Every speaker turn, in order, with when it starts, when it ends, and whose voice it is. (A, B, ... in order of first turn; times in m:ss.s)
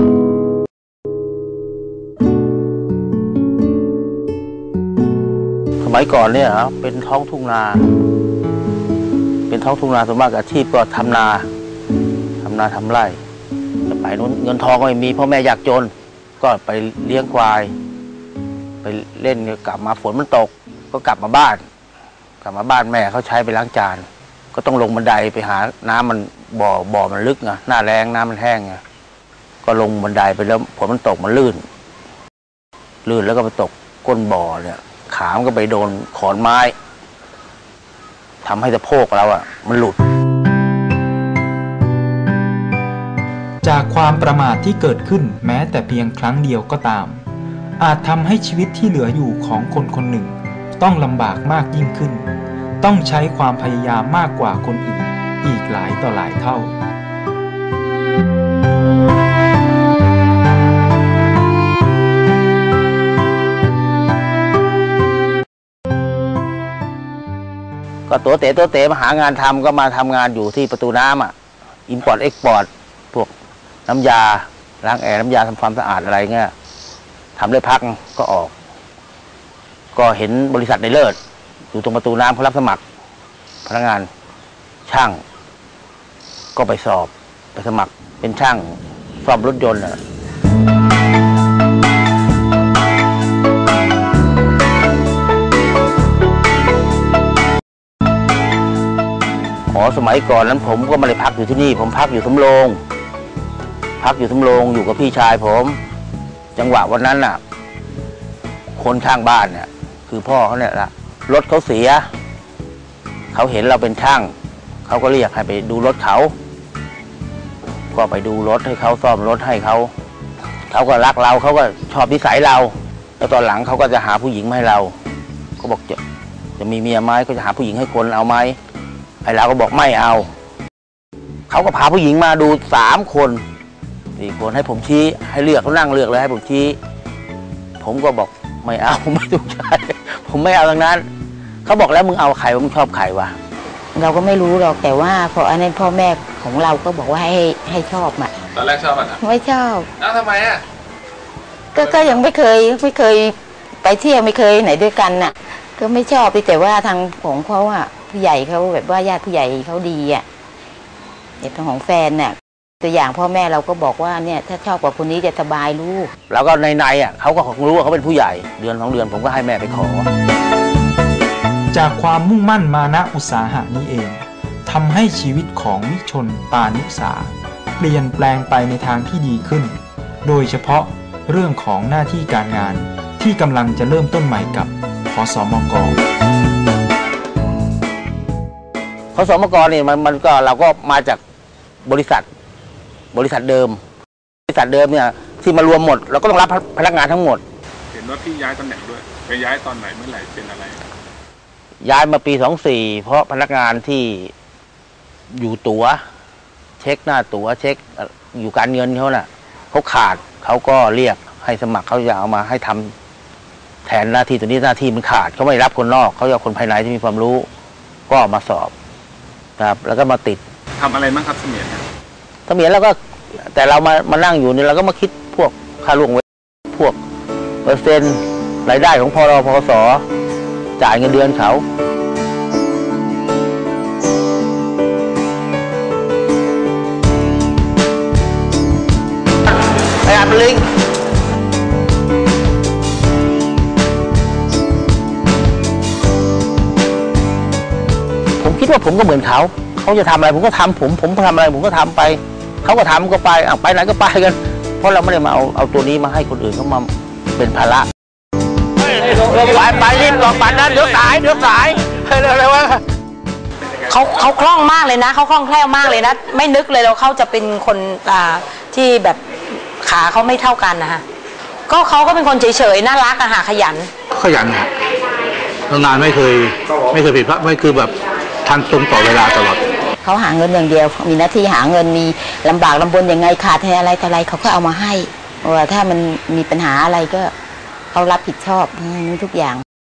0:05.8-0:07.9 A
0:09.5-0:11.5 A
0:12.4-0:13.2 A
0:13.9-0:17.7 A
0:18.8-0:21.6 A
0:22.4-0:28.8 A
0:29.6-0:31.6 A
0:33.0-0:36.7 A
0:38.4-0:40.0 A
0:43.6-0:47.2 B
0:47.8-0:56.8 B
1:08.1-1:11.3 A
1:11.9-1:13.3 A
1:13.9-1:16.5 A
1:17.4-1:18.5 A
1:19.9-1:21.2 A
1:21.7-1:22.8 A
1:23.7-1:24.1 A
1:24.9-1:25.2 A
1:26.6-1:30.0 A
1:39.7-1:42.8 A
1:44.0-1:45.8 A
1:46.6-1:47.4 A
1:48.8-1:52.1 A
1:53.3-1:54.3 A
1:54.9-1:56.3 A
1:57.9-1:59.9 A
2:00.7-2:05.0 A
2:05.6-2:06.0 A
2:06.6-2:08.6 A
2:09.2-2:10.3 A
2:11.5-2:13.4 A
2:14.2-2:16.8 A
2:17.8-2:21.1 A
2:21.6-2:23.3 A
2:24.0-2:28.3 C
2:28.9-2:29.9 C
2:31.7-2:40.2 C
2:41.4-2:46.1 C
2:46.3-2:50.1 A
2:51.7-3:06.0 B
3:09.2-3:11.2 A
3:11.8-3:12.3 A
3:13.1-3:13.8 A
3:14.5-3:17.4 A
3:18.0-3:20.8 D
3:19.0-3:19.6 E
3:21.8-3:24.3 A
3:25.3-3:26.0 A
3:26.8-3:32.9 A
3:33.8-3:37.5 A
3:38.1-3:38.7 A
3:39.6-3:40.4 A
3:40.8-3:41.8 D
3:42.5-3:47.0 A
3:47.6-3:50.0 A
3:50.8-3:51.6 A
3:59.9-4:00.6 A
4:08.4-4:17.9 A
4:19.0-4:22.8 A
4:23.9-4:29.2 E
4:29.8-4:31.0 E
4:31.7-4:33.9 E
4:34.2-4:34.7 F
4:35.7-4:37.9 F
4:38.5-4:39.6 F
4:40.0-4:47.3 C
4:47.9-4:49.6 C